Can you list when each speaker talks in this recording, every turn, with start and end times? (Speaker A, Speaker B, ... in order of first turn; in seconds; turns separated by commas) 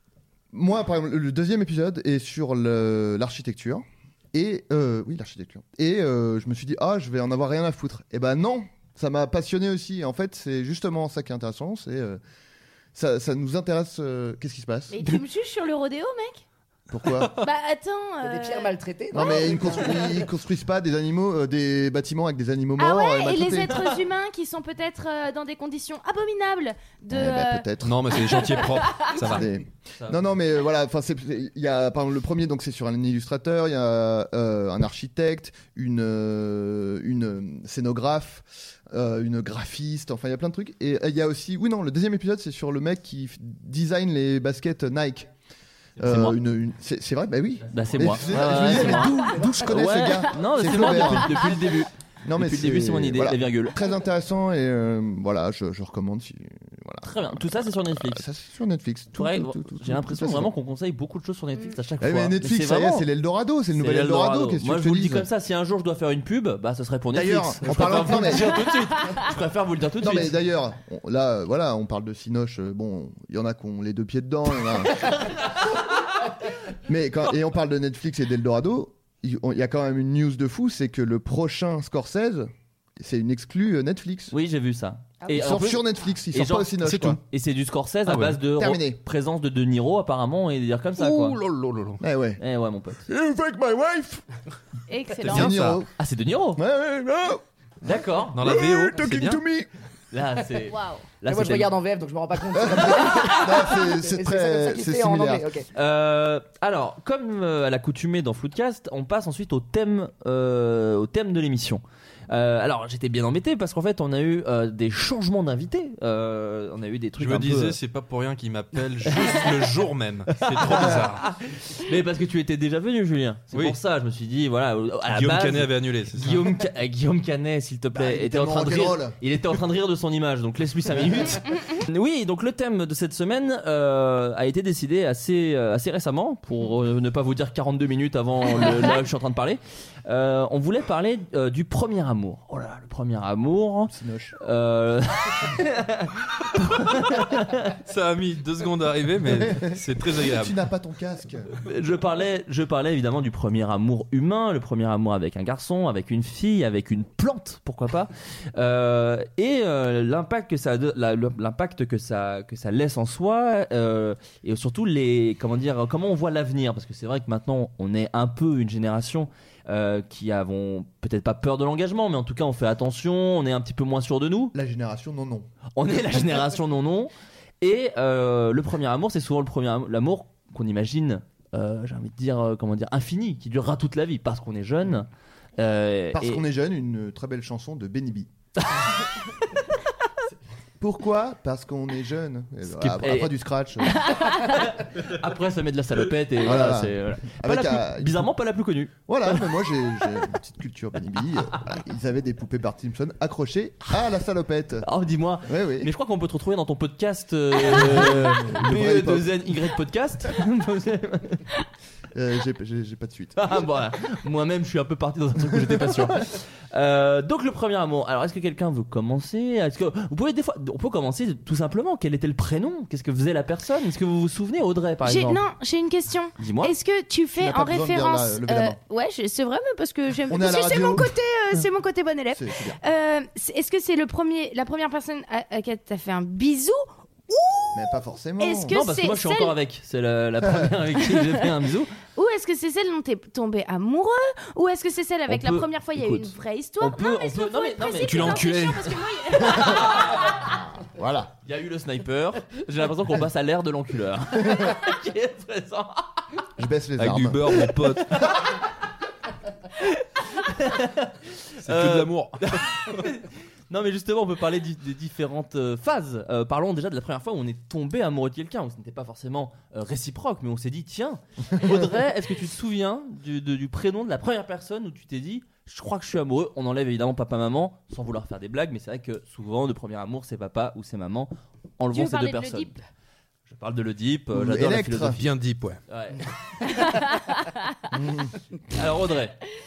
Speaker A: 0.5-12.2, Speaker A: 12.9-15.0, Speaker B: 14.9-16.4, Speaker A: 16.9-17.3, Speaker B: 17.3-19.9, Speaker C: 18.2-20.2, Speaker A: 19.1-23.8, Speaker B: 22.8-29.4, Speaker A: 27.1-28.2, Speaker D: 27.8-29.5, Speaker A: 29.3-45.3, Speaker E: 30.0-30.3, Speaker A: 46.0-51.5, Speaker E: 46.0-46.4, Speaker E: 47.7-53.8, Speaker B: 50.6-51.5, Speaker A: 52.2-60.5, Speaker E: 57.0-58.2, Speaker E: 59.1-63.1, Speaker A: 62.0-65.3, Speaker E: 63.7-70.3, Speaker A: 67.1-68.6, Speaker A: 70.0-75.1, Speaker A: 76.8-84.3, Speaker E: 84.3-91.4, Speaker B: 85.2-85.6, Speaker A: 85.3-87.2, Speaker D: 86.8-87.2, Speaker D: 88.1-88.4, Speaker A: 88.5-89.0, Speaker D: 91.0-92.0, Speaker A: 92.0-92.4, Speaker E: 92.4-93.0, Speaker A: 93.1-94.2, Speaker B: 94.9-95.6, Speaker D: 95.2-95.8, Speaker A: 95.3-95.9, Speaker E: 96.0-96.6, Speaker A: 96.5-97.9, Speaker E: 97.8-98.4, Speaker D: 98.3-99.4, Speaker A: 98.4-99.7, Speaker E: 100.1-101.7, Speaker B: 100.7-101.1, Speaker C: 101.3-105.7, Speaker A: 102.5-105.4, Speaker E: 105.7-117.8, Speaker D: 117.2-121.2, Speaker E: 119.1-119.5, Speaker E: 120.4-147.8, Speaker D: 123.5-123.8, Speaker D: 125.1-126.5, Speaker A: 127.9-129.2, Speaker A: 143.9-144.3, Speaker D: 147.8-150.5, Speaker A: 149.2-151.5, Speaker E: 151.6-174.5, Speaker A: 174.5-175.5, Speaker E: 175.8-186.4, Speaker A: 186.1-188.3, Speaker E: 188.6-189.0, Speaker A: 190.8-194.1, Speaker E: 192.7-193.3, Speaker B: 194.0-194.6, Speaker E: 194.4-199.5, Speaker A: 196.4-198.3, Speaker A: 199.1-204.8, Speaker E: 204.8-211.4, Speaker A: 205.4-205.9, Speaker A: 207.6-209.3, Speaker A: 212.1-213.4, Speaker E: 213.3-225.4, Speaker A: 215.5-216.2, Speaker B: 225.0-239.6, Speaker E: 226.4-226.7, Speaker A: 227.3-228.8, Speaker A: 230.3-231.1, Speaker A: 232.3-232.8, Speaker A: 237.7-238.8, Speaker E: 238.7-241.9, Speaker B: 242.1-250.2, Speaker E: 245.3-248.6, Speaker D: 248.0-248.9, Speaker E: 249.4-250.4, Speaker A: 250.8-251.3, Speaker E: 251.4-256.2, Speaker A: 256.6-257.6, Speaker D: 257.0-258.1, Speaker E: 258.1-258.6, Speaker E: 259.8-282.7, Speaker D: 261.6-262.4, Speaker B: 281.9-282.8, Speaker E: 283.5-285.2, Speaker A: 284.3-285.2, Speaker D: 285.1-285.8, Speaker E: 285.9-286.3, Speaker B: 286.6-287.7, Speaker A: 287.9-288.3, Speaker E: 288.7-289.4